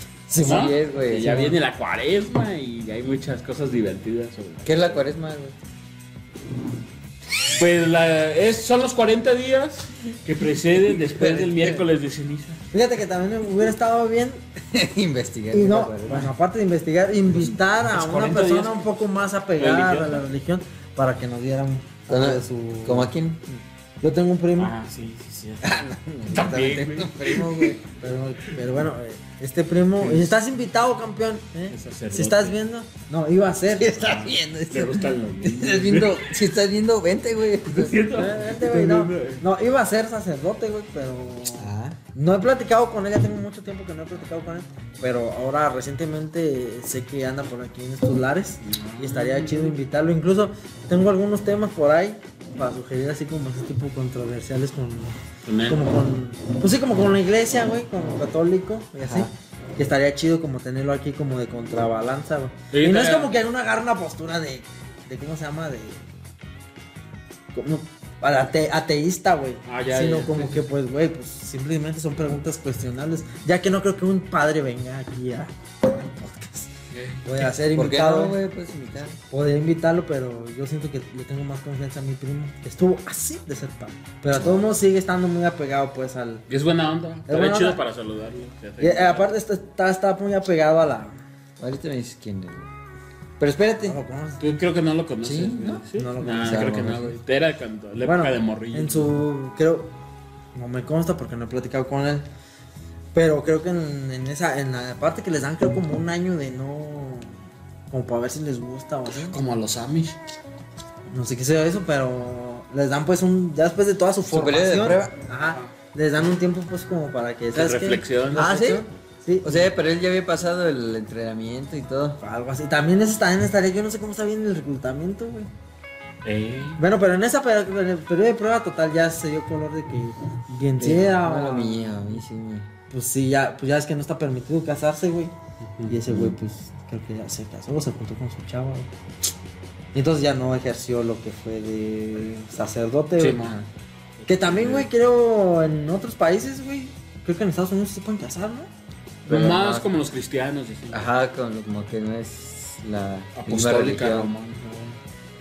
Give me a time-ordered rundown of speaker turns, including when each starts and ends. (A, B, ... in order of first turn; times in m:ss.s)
0:00.3-0:01.6 A
0:00.4-0:05.0 B
0:04.6-0:05.6 A
0:07.5-0:12.6 B
0:10.8-0:11.9 A
0:12.7-0:14.4 C
0:14.7-0:16.3 A
0:15.5-0:23.1 C
0:17.9-0:18.8 B
0:19.6-0:20.2 B
0:22.1-0:23.6 A
0:24.0-0:24.7 C
0:24.6-0:27.8 B
0:25.6-0:27.8 A
0:28.0-0:34.0 C
0:30.0-0:30.3 B
0:31.7-0:32.6 B
0:33.8-0:38.0 A
0:34.0-0:36.3 B
0:37.7-0:39.5 B
0:38.1-0:55.2 C
0:41.6-0:42.0 A
0:48.6-0:49.8 B
0:55.4-0:55.8 B
0:55.7-1:06.1 C
0:59.0-0:59.3 B
1:02.7-1:03.3 B
1:07.5-1:16.7 C
1:09.6-1:10.7 B
1:16.9-1:17.5 B
1:17.2-1:18.4 C
1:17.7-1:19.2 A
1:19.3-1:26.4 C
1:26.5-1:29.3 B
1:27.3-1:27.8 C
1:28.8-1:31.2 C
1:31.6-1:32.7 A
1:33.4-1:34.0 A
1:33.8-1:34.4 C
1:34.4-1:39.2 B
1:35.2-1:35.9 A
1:36.0-1:36.9 C
1:36.4-1:37.2 A
1:38.0-1:39.9 C
1:40.6-1:42.3 C
1:43.2-1:47.4 C
1:47.9-1:49.4 C
1:49.2-1:50.2 B
1:51.1-1:59.7 C
1:54.3-1:55.1 A
1:55.5-1:55.7 B
1:57.5-1:58.6 B
1:58.4-1:58.8 A
1:59.4-2:02.2 A
2:02.2-2:05.5 C
2:06.2-2:06.8 B
2:06.8-2:12.2 C
2:10.8-2:12.7 A
2:12.9-2:15.3 C
2:15.6-2:15.9 B
2:15.9-2:18.9 C
2:16.1-2:16.4 A
2:19.9-2:23.4 C
2:23.2-2:23.6 B
2:23.4-2:23.7 A
2:24.2-2:24.9 B
2:24.3-2:28.7 C
2:29.2-2:29.9 A
2:29.3-2:31.1 B
2:30.9-2:34.3 A
2:33.4-2:35.0 B